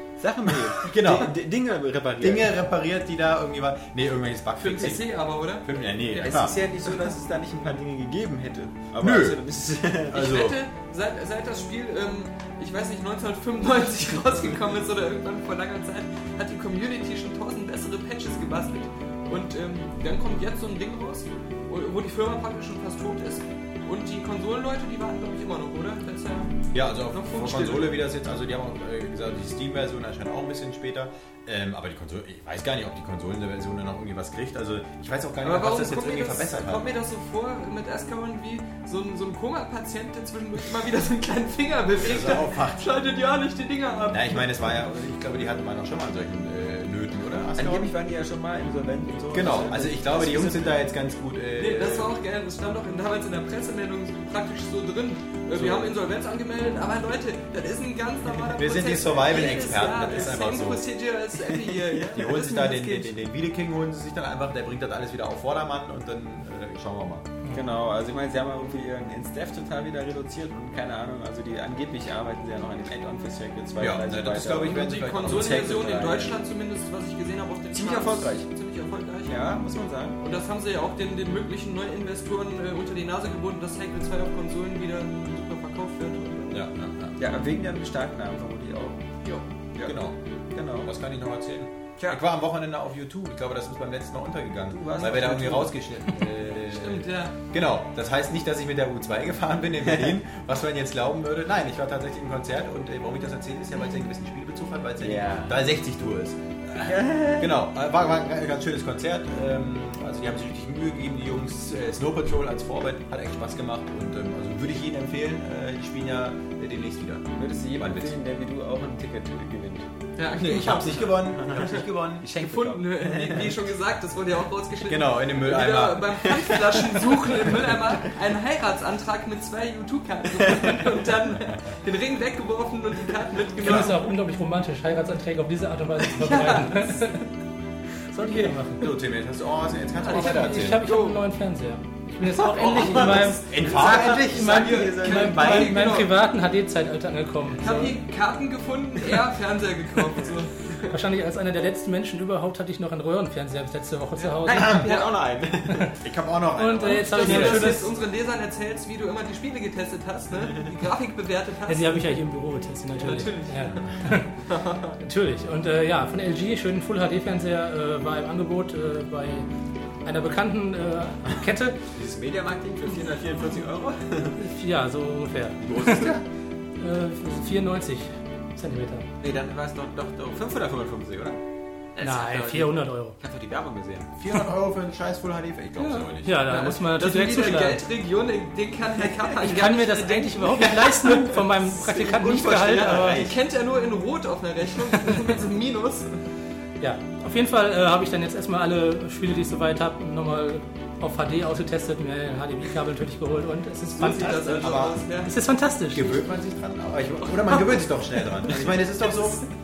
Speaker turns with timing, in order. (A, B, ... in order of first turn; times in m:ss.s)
0:00.2-0:02.6 A
0:00.7-0:01.4 B
0:02.2-0:06.6 B
0:04.6-0:06.5 C
0:06.2-0:10.2 A
0:09.0-0:09.4 B
0:10.1-0:10.6 B
0:10.1-0:27.9 C
0:26.7-0:36.9 B
0:35.4-0:44.6 C
0:42.0-0:42.9 B
0:44.1-0:47.9 B
0:47.6-0:50.8 A
0:49.3-0:52.1 B
0:51.6-1:03.2 C
0:55.5-0:56.0 B
0:58.6-1:00.9 B
1:01.5-1:02.2 A
1:02.1-1:07.3 B
1:07.5-1:14.9 A
1:13.8-1:16.4 B
1:14.6-1:19.3 C
1:17.7-1:18.5 A
1:19.3-1:20.2 A
1:20.2-1:26.6 C
1:26.5-1:27.2 B
1:27.2-1:29.0 A
1:29.8-1:30.2 B
1:30.6-1:30.9 A
1:30.8-1:58.2 B
1:34.7-1:35.8 A
1:36.6-1:37.4 C
1:39.9-1:40.1 A
1:45.0-1:45.6 A
1:46.8-1:47.6 A
1:57.4-1:59.9 A
2:00.2-2:14.1 C
2:00.3-2:02.3 B
2:01.4-2:03.6 A
2:04.8-2:06.5 B
2:10.4-2:10.8 A
2:13.6-2:13.9 B
2:13.6-2:17.3 D
2:16.1-2:17.1 C
2:18.1-2:18.9 D
2:18.2-2:18.6 C
2:18.8-2:20.8 B
2:20.0-2:21.2 C
2:20.1-2:28.0 D
2:22.3-2:26.0 A
2:22.6-2:26.2 C
2:22.8-2:24.2 B
2:27.6-2:31.0 C
2:30.9-2:34.9 D
2:34.2-2:35.1 C
2:34.4-2:36.0 A
2:34.6-2:34.9 B
2:36.0-2:37.8 B
2:36.6-2:37.9 D
2:36.8-2:42.2 C
2:41.7-2:44.3 D
2:42.9-2:45.0 C
2:45.0-2:49.5 D
2:50.0-2:51.8 D
2:51.9-2:54.4 A
2:54.4-2:56.1 D
2:55.7-2:56.0 A
2:55.7-2:56.2 B
2:56.8-2:59.1 D
2:59.2-3:01.4 A
3:02.0-3:04.1 A
3:02.0-3:03.2 D
3:04.2-3:06.4 B
3:05.8-3:11.4 C
3:06.2-3:07.8 D
3:09.4-3:13.3 D
3:11.6-3:13.4 A
3:13.1-3:16.2 C
3:16.8-3:26.2 D
3:24.0-3:25.3 C
3:24.2-3:25.1 B
3:25.9-3:29.4 B